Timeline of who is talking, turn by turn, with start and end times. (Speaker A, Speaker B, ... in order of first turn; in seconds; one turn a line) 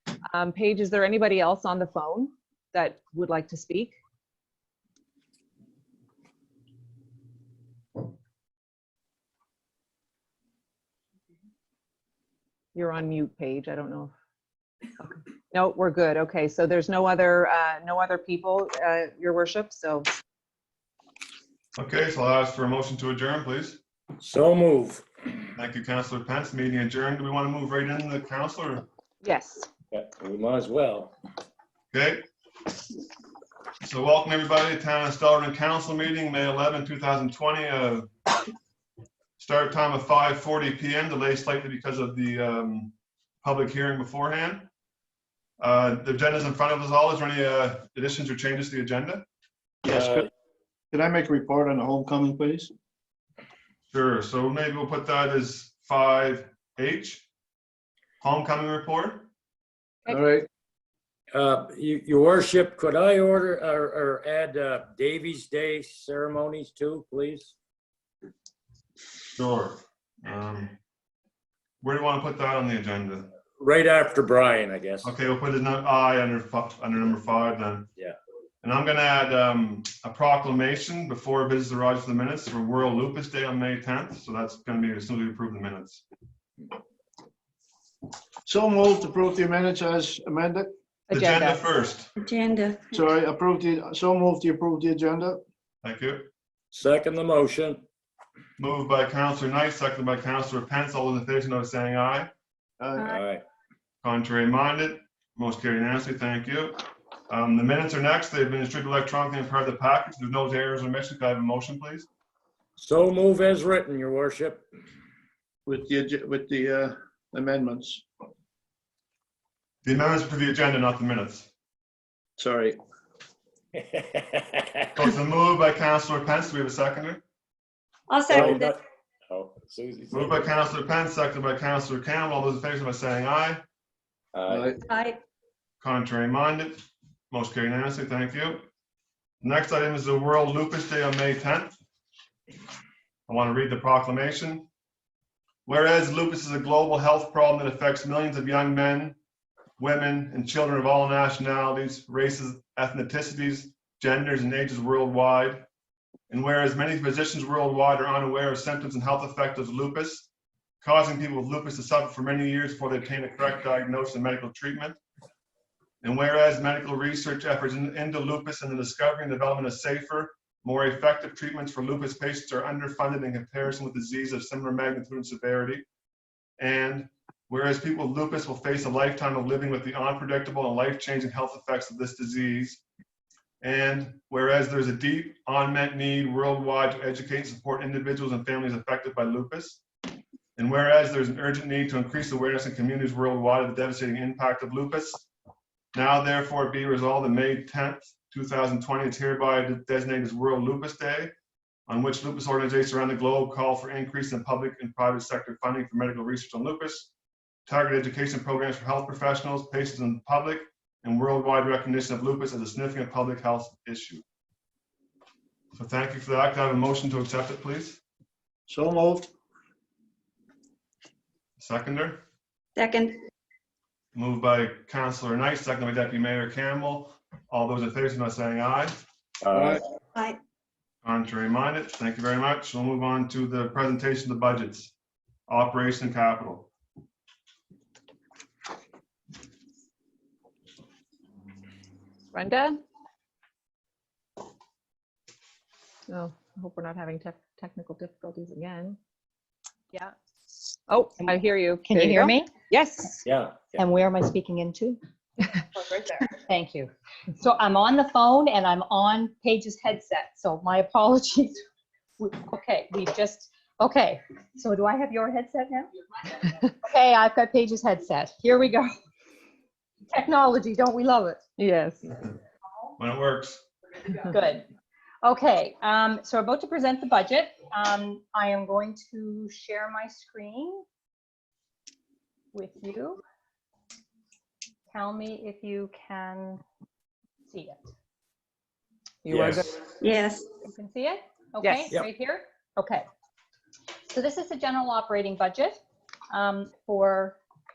Speaker A: 0.2-3.9
Speaker A: 12.7-14.1
Speaker A: 15.0-20.1
Speaker B: 21.8-23.8
Speaker C: 24.2-25.0
Speaker B: 25.6-28.8
Speaker A: 29.2-29.7
Speaker C: 29.9-31.1
Speaker B: 31.9-32.2
Speaker B: 33.8-38.1
Speaker B: 39.4-44.7
Speaker B: 45.6-49.2
Speaker D: 49.8-50.3
Speaker C: 49.9-50.2
Speaker D: 50.9-52.7
Speaker B: 53.9-57.2
Speaker B: 58.2-59.3
Speaker D: 60.1-60.5
Speaker C: 61.3-67.5
Speaker B: 69.3-70.8
Speaker B: 71.8-73.3
Speaker C: 73.6-75.1
Speaker B: 75.0-77.9
Speaker B: 78.6-86.0
Speaker D: 88.5-90.7
Speaker A: 91.1-91.7
Speaker B: 91.1-92.1
Speaker E: 92.2-93.1
Speaker D: 92.9-95.4
Speaker B: 95.8-96.3
Speaker C: 96.7-97.8
Speaker B: 98.6-102.3
Speaker D: 102.8-103.2
Speaker C: 103.0-103.4
Speaker B: 104.0-112.1
Speaker C: 112.8-114.6
Speaker D: 115.7-118.0
Speaker B: 119.8-121.5
Speaker D: 122.4-122.8
Speaker C: 123.8-124.8
Speaker B: 125.0-127.2
Speaker E: 128.1-128.7
Speaker C: 128.3-130.6
Speaker B: 130.1-133.6
Speaker C: 134.3-134.7
Speaker D: 134.5-134.8
Speaker E: 134.8-135.2
Speaker B: 135.8-138.6
Speaker B: 139.4-141.7
Speaker B: 143.3-144.7
Speaker B: 145.7-149.2
Speaker B: 149.8-155.6
Speaker B: 156.3-160.3
Speaker B: 160.8-165.0
Speaker B: 166.0-175.8
Speaker B: 176.6-182.8
Speaker B: 183.6-189.8
Speaker B: 190.6-195.2
Speaker B: 195.9-201.3
Speaker B: 201.9-207.1
Speaker B: 207.7-214.2
Speaker B: 215.7-218.0
Speaker D: 218.7-219.3
Speaker B: 221.6-222.2
Speaker E: 222.8-223.2
Speaker B: 224.1-228.9
Speaker C: 229.4-229.8
Speaker D: 229.5-229.8
Speaker B: 231.0-234.9
Speaker B: 235.5-236.7
Speaker A: 242.3-242.8
Speaker A: 246.1-249.0
Speaker A: 250.9-253.2
Speaker F: 251.2-252.5
Speaker C: 253.2-253.8
Speaker F: 253.7-255.0
Speaker F: 255.7-261.6
Speaker F: 262.2-268.9
Speaker F: 270.1-271.4
Speaker A: 271.6-272.1
Speaker B: 273.0-273.6
Speaker F: 274.2-274.6
Speaker F: 275.2-280.8
Speaker F: 282.5-283.2
Speaker F: 284.9-286.6
Speaker F: 287.5-287.8
Speaker A: 289.2-289.7
Speaker C: 289.3-289.7
Speaker E: 290.0-290.5
Speaker F: 290.6-293.1
Speaker A: 291.6-291.9
Speaker F: 294.1-295.8
Speaker F: 296.3-297.4